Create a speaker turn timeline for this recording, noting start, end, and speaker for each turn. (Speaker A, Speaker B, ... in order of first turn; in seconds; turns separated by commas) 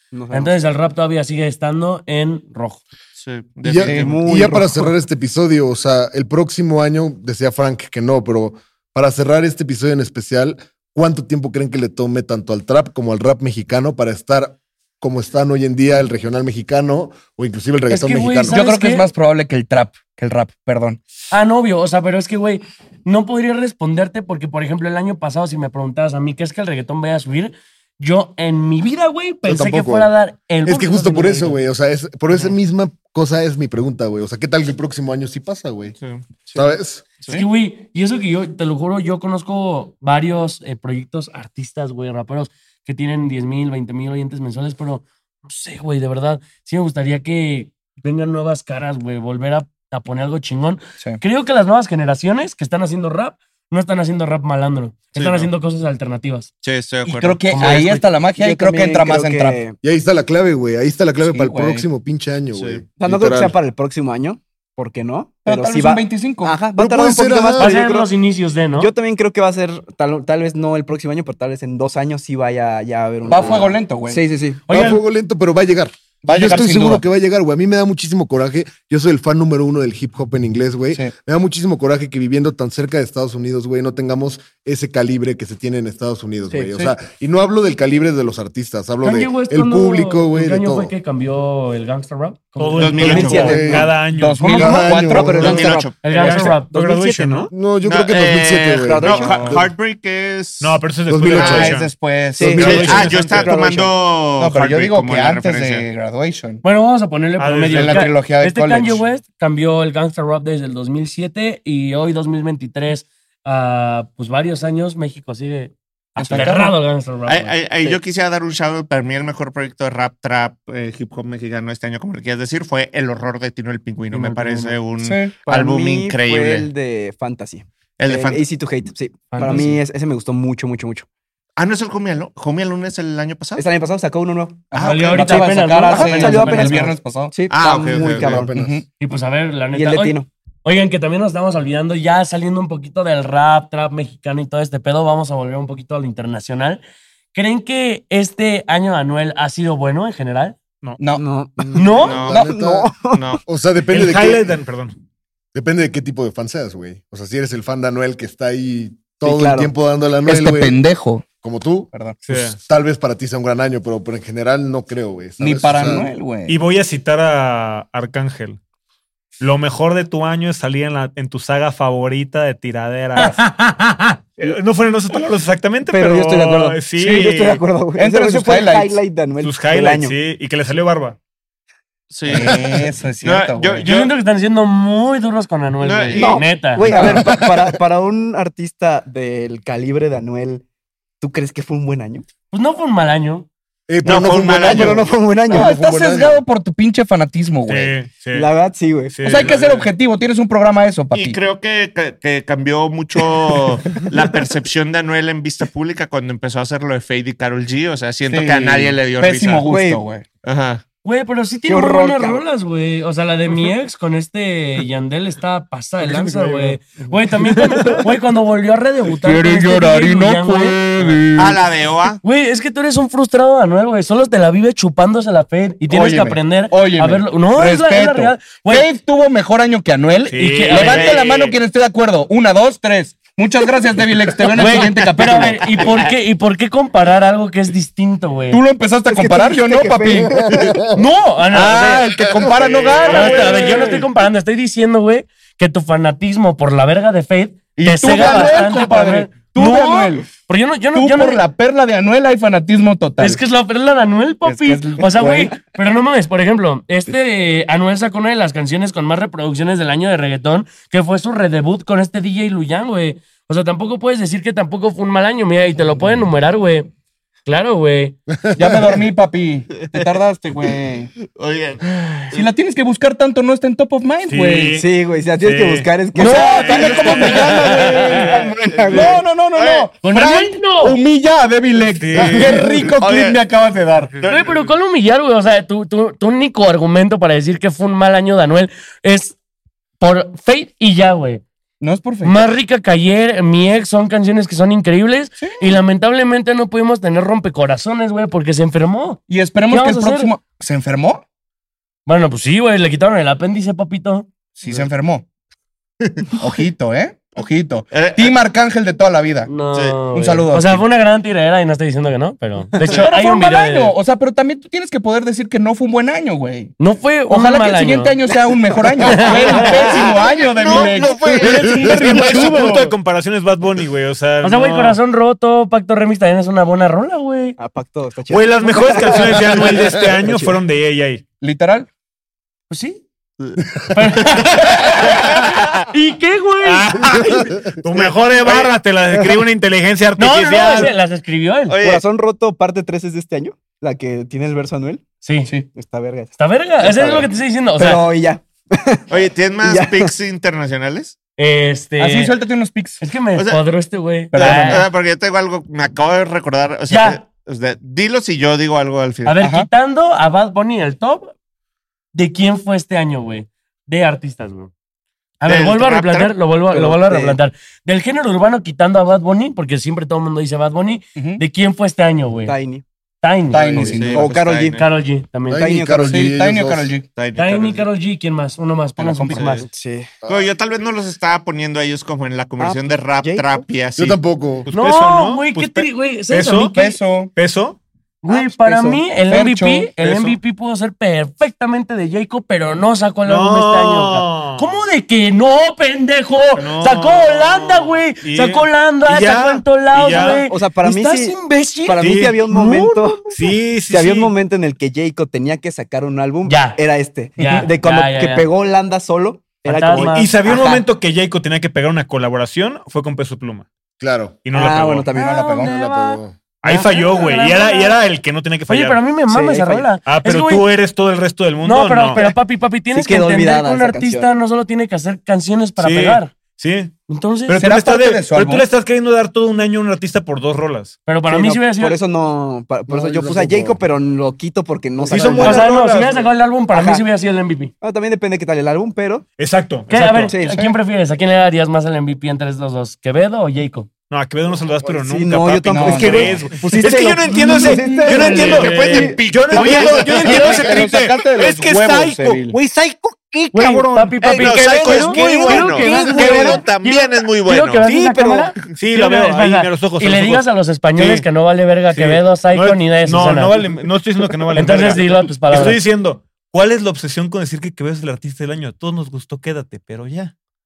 Speaker A: 0.1-0.6, Speaker B: 0.3-2.8, Speaker C: 3.2-4.2, Speaker D: 3.6-18.6, Speaker A: 3.9-4.9, Speaker B: 17.9-19.1, Speaker E: 18.5-21.0, Speaker B: 21.3-31.6, Speaker D: 29.4-30.1, Speaker D: 30.6-36.0, Speaker C: 36.0-36.3, Speaker D: 36.5-37.1, Speaker C: 37.2-37.5, Speaker B: 37.3-56.5, Speaker C: 55.1-55.5, Speaker C: 56.6-57.6, Speaker E: 57.0-59.6, Speaker B: 57.5-58.0, Speaker A: 57.6-59.8, Speaker D: 59.8-63.6, Speaker E: 61.2-61.9, Speaker C: 62.5-62.9, Speaker A: 63.0-68.1, Speaker E: 65.5-66.7, Speaker D: 66.8-67.8, Speaker B: 67.6-68.9, Speaker A: 68.8-74.7, Speaker E: 73.3-74.2, Speaker D: 73.4-73.6, Speaker B: 74.7-75.0, Speaker D: 74.7-90.9, Speaker E: 76.2-77.0, Speaker B: 89.0-93.7, Speaker F: 92.6-94.4, Speaker C: 92.8-93.6, Speaker A: 93.0-94.0, Speaker D: 93.2-95.8, Speaker E: 94.1-95.7, Speaker A: 94.6-97.5, Speaker C: 95.3-96.2, Speaker B: 96.0-96.7, Speaker F: 96.1-97.5, Speaker D: 97.5-99.7, Speaker C: 97.8-100.8, Speaker A: 98.8-99.6, Speaker F: 100.6-101.9, Speaker D: 101.1-101.8, Speaker E: 101.3-103.0, Speaker C: 101.4-101.7, Speaker A: 102.3-104.0, Speaker F: 102.6-103.6, Speaker C: 102.6-105.9, Speaker E: 104.4-106.6, Speaker B: 106.6-117.6, Speaker F: 107.4-108.1, Speaker E: 107.7-109.0, Speaker E: 116.2-116.8, Speaker C: 117.3-126.7, Speaker B: 124.1-124.8, Speaker E: 125.0-125.3, Speaker A: 125.4-131.1, Speaker C: 128.0-128.4, Speaker B: 129.3-129.8, Speaker C: 131.6-133.7, Speaker A: 133.6-134.8, Speaker E: 134.7-137.3, Speaker C: 134.7-135.4, Speaker B: 134.8-136.9, Speaker A: 135.3-138.6, Speaker C: 137.5-138.4, Speaker D: 138.1-138.8, Speaker E: 138.5-138.8, Speaker B: 139.0-146.8, Speaker A: 139.7-140.3, Speaker B: 147.3-150.6, Speaker E: 151.0-151.2, Speaker A: 151.1-153.2, Speaker D: 151.7-154.6, Speaker B: 151.7-152.2, Speaker C: 151.9-152.4, Speaker C: 153.1-153.4, Speaker F: 153.9-154.9, Speaker D: 155.5-160.8, Speaker A: 159.2-159.7, Speaker E: 160.3-161.2, Speaker D: 161.4-166.1, Speaker E: 161.9-162.2, Speaker F: 162.2-162.6, Speaker E: 165.4-166.6, Speaker F: 166.5-168.6, Speaker F: 169.4-173.5, Speaker B: 173.2-174.2, Speaker F: 174.4-177.6, Speaker A: 175.9-180.2, Speaker E: 177.0-177.3, Speaker E: 178.0-179.0, Speaker F: 179.4-181.2, Speaker C: 182.1-184.2, Speaker E: 182.3-183.9, Speaker B: 183.8-186.9, Speaker C: 185.8-186.4, Speaker A: 186.1-190.6, Speaker D: 186.9-187.8, Speaker A: 191.2-192.3, Speaker B: 192.5-193.5, Speaker D: 193.9-196.4, Speaker C: 194.0-195.2, Speaker A: 194.6-195.8, Speaker E: 195.5-197.9, Speaker F: 197.7-198.5, Speaker A: 198.3-199.3, Speaker F: 199.1-199.9, Speaker E: 199.2-201.4, Speaker C: 201.1-209.7, Speaker E: 208.3-210.2, Speaker A: 209.7-210.0, Speaker C: 210.4-210.8, Speaker B: 211.0-221.2, Speaker A: 211.7-212.4, Speaker E: 216.0-216.4, Speaker E: 219.2-221.6, Speaker C: 221.3-222.2, Speaker B: 222.2-228.9, Speaker E: 225.9-235.9, Speaker F: 230.3-231.5, Speaker B: 230.4-231.1, Speaker B: 234.6-238.6, Speaker C: 234.9-236.0, Speaker E: 238.5-240.7, Speaker A: 239.1-240.8, Speaker D: 240.5-240.8, Speaker B: 240.9-242.1, Speaker E: 241.5-244.1, Speaker F: 242.9-244.0, Speaker B: 243.0-251.4, Speaker E: 247.8-250.3, Speaker E: 250.9-253.4, Speaker B: 253.2-266.9, Speaker E: 254.4-255.5, Speaker B: 267.4-268.2, Speaker D: 268.4-269.0, Speaker E: 268.6-271.1, Speaker C: 269.8-270.1, Speaker C: 271.3-272.5, Speaker E: 272.3-274.8, Speaker F: 274.3-274.9, Speaker A: 274.7-277.6, Speaker F: 275.4-275.9, Speaker E: 276.1-284.1, Speaker C: 276.4-279.9, Speaker B: 277.4-277.8, Speaker A: 278.3-279.2, Speaker B: 280.0-281.0, Speaker F: 281.9-282.6, Speaker C: 282.2-283.4, Speaker C: 284.2-284.5, Speaker F: 284.2-284.5, Speaker B: 284.3-289.4, Speaker B: 290.0-291.4, Speaker E: 291.8-292.4, Speaker B: 292.2-300.3, Speaker E: 295.4-295.8, Speaker E: 299.3-301.2, Speaker B: 302.1-304.3, Speaker E: 304.6-305.2, Speaker E: 306.4-309.5, Speaker C: 307.9-308.3, Speaker B: 309.5-313.9, Speaker C: 309.7-310.1, Speaker E: 310.1-310.8, Speaker E: 312.9-316.8, Speaker B: 316.8-318.2, Speaker E: 317.3-322.3, Speaker B: 319.0-319.7, Speaker C: 319.3-322.5, Speaker F: 320.9-325.0, Speaker B: 321.4-322.9, Speaker D: 321.7-322.0, Speaker B: 324.4-327.6, Speaker A: 327.6-330.6, Speaker F: 328.3-331.2, Speaker E: 331.4-331.9, Speaker B: 332.7-333.0, Speaker B: 333.9-337.1, Speaker C: 334.2-335.8, Speaker F: 336.6-340.9, Speaker A: 339.1-339.4, Speaker B: 340.2-341.8, Speaker C: 341.7-342.0, Speaker A: 341.8-345.1, Speaker B: 345.2-345.5, Speaker A: 345.7-350.1, Speaker B: 346.4-348.0, Speaker C: 349.1-351.2, Speaker B: 351.4-352.3, Speaker E: 352.0-353.0, Speaker B: 353.0-354.9, Speaker C: 353.4-353.6, Speaker E: 354.3-354.9, Speaker C: 354.3-359.4, Speaker B: 356.9-357.2, Speaker B: 359.2-361.3, Speaker E: 359.4-359.7, Speaker B: 362.1-364.7, Speaker B: 365.4-372.6, Speaker C: 365.4-366.4, Speaker A: 366.7-367.4, Speaker E: 371.2-371.4, Speaker A: 372.4-372.8, Speaker B: 373.2-375.6, Speaker E: 373.5-374.3, Speaker C: 373.8-374.9, Speaker A: 374.0-374.8, Speaker D: 375.5-377.0, Speaker A: 375.6-376.3, Speaker E: 376.1-377.1, Speaker C: 377.1-377.9, Speaker B: 377.4-379.7, Speaker E: 379.0-379.5, Speaker C: 379.3-379.7, Speaker A: 379.7-380.1, Speaker D: 380.2-380.5, Speaker C: 380.3-384.2, Speaker A: 382.6-383.6, Speaker D: 383.9-384.7, Speaker F: 384.7-386.8, Speaker B: 384.7-387.0, Speaker E: 386.7-387.3, Speaker F: 387.4-387.8, Speaker B: 388.2-403.2, Speaker E: 388.6-389.9, Speaker F: 390.0-390.4, Speaker F: 393.2-394.8, Speaker F: 396.6-400.4, Speaker A: 400.1-410.9, Speaker F: 402.0-402.4, Speaker F: 403.3-404.3, Speaker B: 406.5-406.8, Speaker B: 407.4-408.5, Speaker E: 407.4-407.7, Speaker B: 409.7-410.3, Speaker F: 409.9-413.7, Speaker D: 414.0-414.4, Speaker F: 414.5-415.1, Speaker A: 414.5-415.6, Speaker E: 415.1-415.7, Speaker B: 415.1-418.0, Speaker D: 415.6-416.4, Speaker F: 416.6-419.0, Speaker B: 418.7-420.7, Speaker A: 419.3-419.9, Speaker F: 420.1-422.2, Speaker B: 421.6-426.3, Speaker A: 422.9-424.3, Speaker F: 425.8-426.9, Speaker B: 427.1-427.6, Speaker F: 427.5-431.0, Speaker E: 427.6-428.7, Speaker B: 431.1-432.0, Speaker A: 431.3-435.7, Speaker D: 432.9-433.8, Speaker D: 435.1-435.6, Speaker F: 435.1-436.3, Speaker B: 435.4-437.7, Speaker A: 436.7-437.0, Speaker A: 437.8-439.3, Speaker F: 439.4-440.3, Speaker B: 439.9-443.9, Speaker A: 440.0-440.7, Speaker F: 444.1-456.1, Speaker A: 444.9-449.2, Speaker E: 445.7-446.4, Speaker B: 447.3-448.8, Speaker E: 447.7-448.0, Speaker C: 448.2-450.6, Speaker E: 449.6-452.6, Speaker B: 453.5-463.6, Speaker C: 454.3-457.9, Speaker E: 455.9-456.6, Speaker F: 457.8-461.2, Speaker F: 461.9-470.3, Speaker B: 464.5-465.8